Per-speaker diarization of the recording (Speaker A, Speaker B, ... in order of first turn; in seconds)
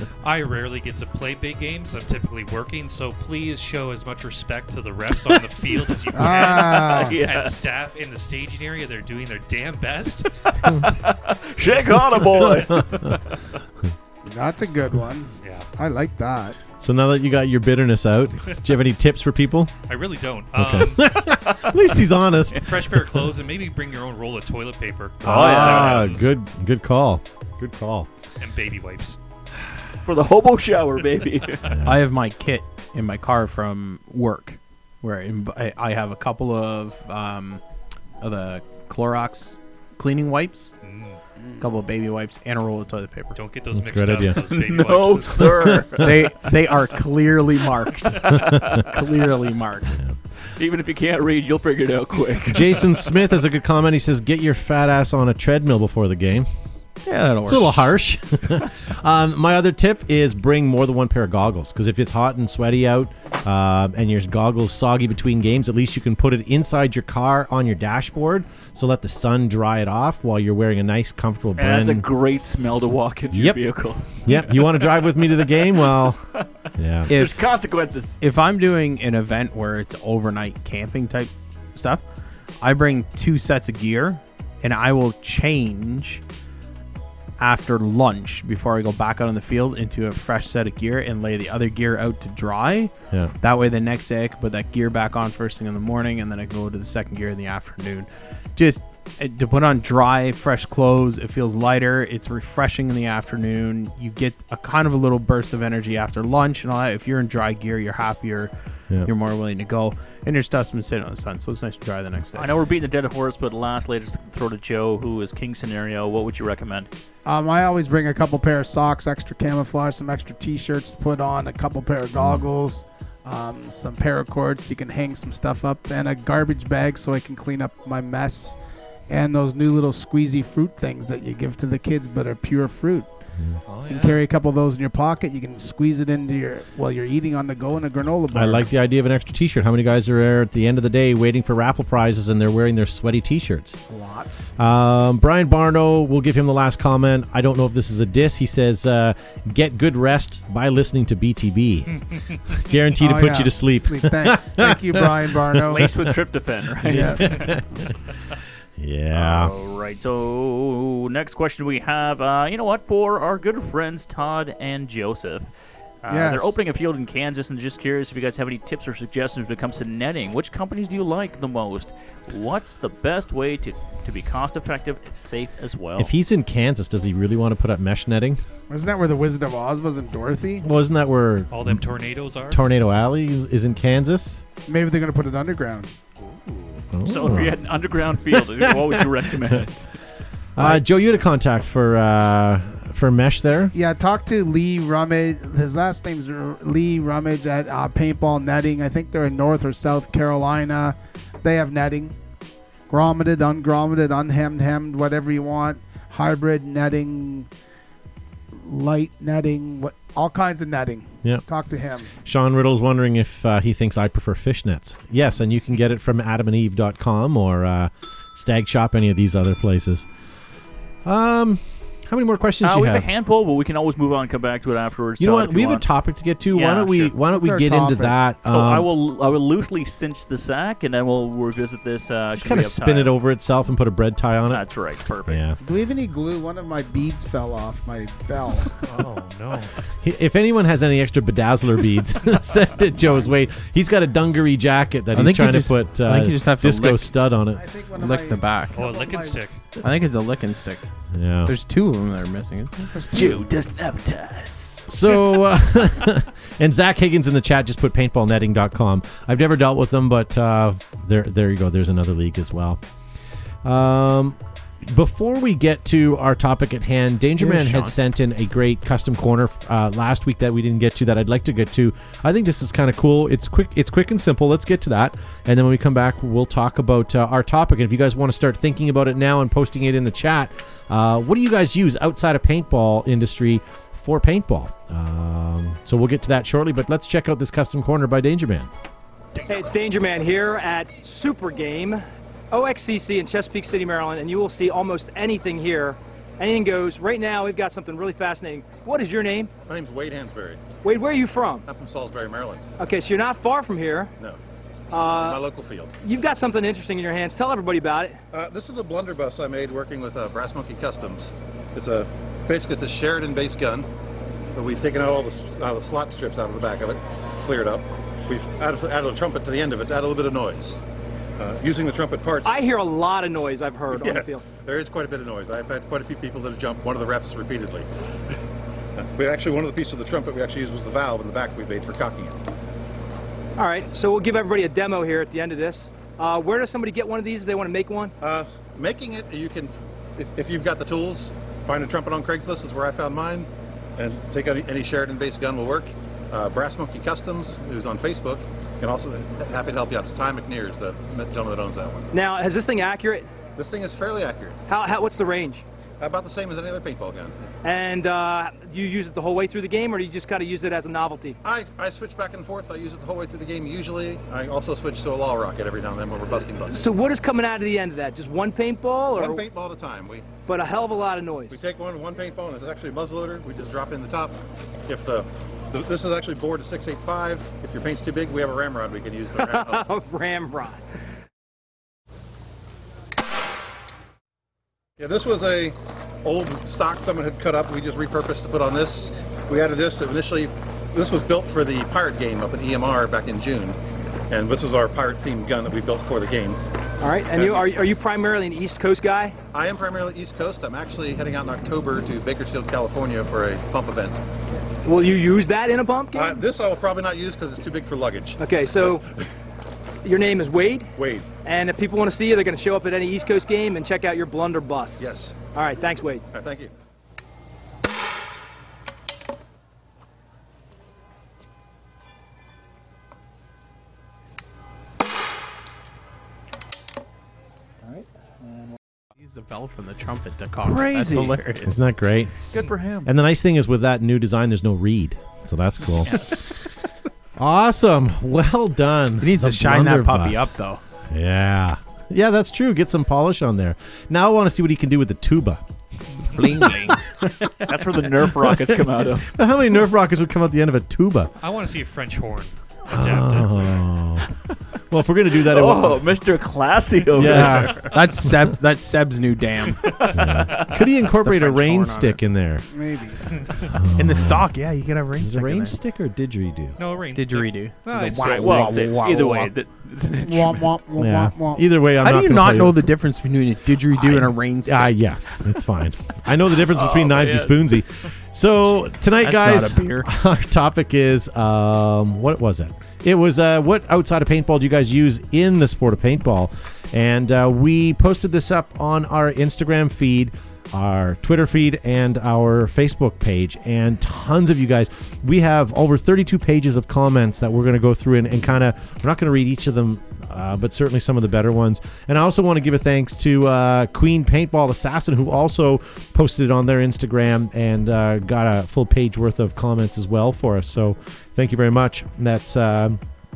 Speaker A: 0.2-10.3, 15.4-15.7, 19.9-21.1, 22.5-26.3, 28.4-29.2, 40.8-41.2, 43.3-46.0, 133.7-134.2, 181.5-182.6, 186.2-186.7, 238.8-239.7, 248.7-249.7, 451.4-453.9, 457.2-458.0, 466.8-468.9
Speaker B: 6.1-7.2, 14.2-16.6, 117.2-128.6, 129.1-133.1, 133.9-138.7, 143.9-144.5, 153.0-155.9, 156.9-157.4, 166.1-166.6, 178.7-180.6, 184.7-185.9, 193.7-202.1, 202.9-207.5, 208.5-212.1, 227.3-228.2, 235.6-238.8, 243.0-243.3, 247.5-249.4, 252.8-253.5, 462.7-463.3, 470.2-471.7
Speaker C: 6.2-7.7, 10.4-13.3, 21.4-21.7, 30.0-31.6, 44.4-46.0, 48.0-48.9, 50.6-52.9, 71.6-76.4, 77.1-78.2, 112.3-116.9, 155.7-157.5, 159.1-165.5, 166.0-176.1, 187.1-189.8, 222.6-225.8, 226.5-227.1, 228.4-233.1, 234.5-235.4, 253.1-254.8, 430.6-431.4, 432.5-433.1, 447.6-449.3, 455.4-457.9, 459.8-460.8, 468.1-470.7, 476.7-477.6
Speaker D: 12.2-13.2, 16.8-19.7, 20.5-23.2, 25.2-28.1, 31.7-32.0, 43.7-44.4, 45.4-46.0, 52.5-56.5, 57.5-72.1, 73.3-73.6, 74.2-76.2, 76.8-77.1, 122.2-122.4, 138.3-143.8, 144.6-156.1, 156.8-157.9, 158.8-159.5, 176.0-178.4, 180.6-181.8, 182.5-184.4, 186.9-187.6, 188.3-189.6, 190.6-193.7, 212.2-220.1, 221.0-223.1, 225.2-228.9, 232.3-234.6, 235.3-235.6, 240.0-247.6, 251.1-251.5, 254.9-262.8, 263.6-288.7, 431.6-436.3, 437.4-440.5, 441.1-445.6, 448.7-451.3, 452.9-454.3, 454.9-456.0, 457.1-457.9, 460.1-462.7, 463.7-464.5, 465.2-466.8, 471.0-472.9, 473.9-513.0
Speaker E: 25.3-25.8, 31.8-37.6, 38.2-40.7, 41.6-43.4, 46.0-50.0, 57.0-57.9, 77.1-77.4, 78.2-82.0, 82.6-86.2, 87.4-108.5, 109.0-112.5, 245.1-247.1, 247.9-248.8, 249.8-250.8, 251.4-252.8, 267.4-267.9, 429.2-431.8, 439.2-440.8, 446.3-447.6, 457.4-459.9, 461.0-462.2, 463.9-465.7, 467.1-469.5, 472.0-474.9, 479.2-480.1
Speaker F: 289.5-299.5, 300.8-301.6, 302.8-304.1, 304.9-305.4, 306.0-308.2, 322.4-324.4, 333.6-338.1, 352.1-353.3, 354.7-355.6, 357.6-361.4, 366.7-369.4, 370.5-371.6, 379.4-380.8, 397.0-399.3, 404.8-406.4, 408.4-409.0, 410.0-410.9, 411.4-416.2
Speaker G: 299.7-300.6, 301.6-302.6, 305.1-305.9, 308.3-313.9, 314.5-320.8, 321.4-322.6, 323.9-327.9, 329.0-332.4, 338.2-352.1, 353.6-354.6, 356.0-357.4, 361.4-366.9, 369.1-370.3, 371.5-374.3, 374.9-379.9, 385.0-393.8, 394.3-396.6, 397.3-397.7, 399.5-404.2, 406.1-409.0, 410.9-411.3, 415.0-415.4, 416.3-416.7